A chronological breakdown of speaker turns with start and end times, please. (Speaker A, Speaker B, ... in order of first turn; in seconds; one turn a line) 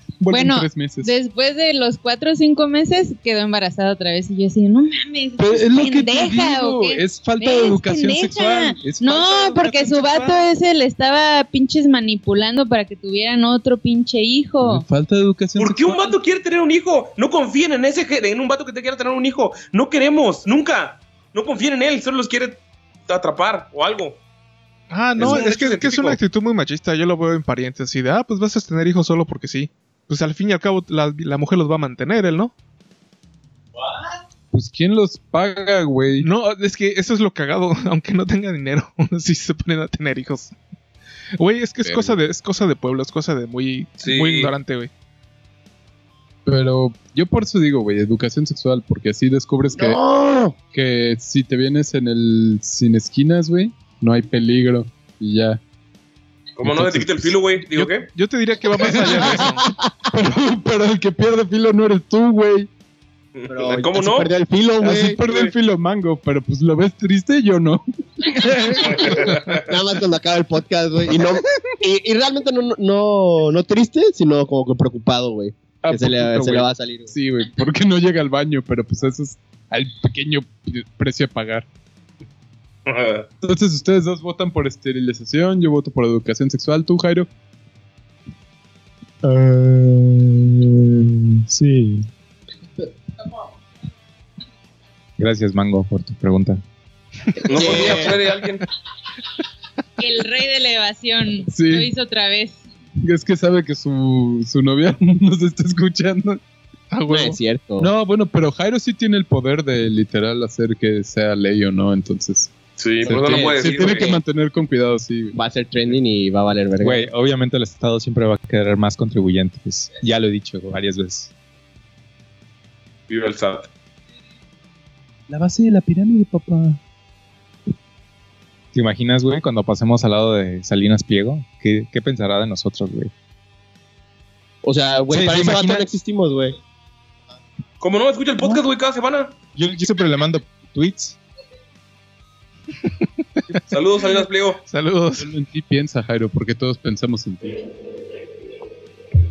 Speaker A: 0.2-1.1
Speaker B: 0.3-14.8
Speaker A: 5.4-10.4
Speaker A: 14.6-16.1
Speaker C: 15.6-24.2
Speaker D: 24.9-32.5
Speaker C: 25.1-26.2
Speaker A: 34.5-36.3
Speaker D: 36.2-40.5
Speaker D: 41.4-44.9
Speaker A: 41.8-42.2
Speaker C: 44.0-44.5
Speaker A: 46.5-50.0
Speaker E: 49.7-50.6
Speaker A: 50.7-55.6
Speaker C: 56.6-58.1
Speaker A: 56.6-57.4
Speaker D: 57.7-59.7
Speaker A: 58.8-59.6
Speaker A: 60.1-62.7
Speaker C: 63.4-64.3
Speaker E: 63.5-65.5
Speaker A: 64.8-69.6
Speaker C: 68.8-69.6
Speaker E: 69.7-77.1
Speaker A: 75.8-81.7
Speaker C: 82.9-83.3
Speaker A: 83.4-87.3
Speaker F: 89.2-92.1
Speaker F: 95.2-96.6
Speaker C: 97.5-98.7
Speaker E: 97.5-98.2
Speaker B: 100.0-102.6
Speaker A: 101.5-101.9
Speaker A: 103.0-106.4
Speaker D: 106.9-107.4
Speaker E: 107.1-107.9
Speaker A: 107.8-115.4
Speaker C: 112.8-114.2
Speaker E: 113.1-114.1
Speaker E: 115.3-117.0
Speaker F: 116.8-121.3
Speaker C: 123.1-123.7
Speaker A: 125.3-126.8
Speaker F: 128.7-133.1
Speaker E: 134.6-136.6
Speaker F: 135.1-135.9
Speaker C: 137.8-139.3
Speaker F: 139.6-141.2
Speaker C: 143.7-144.6
Speaker D: 144.7-145.3
Speaker A: 145.2-147.6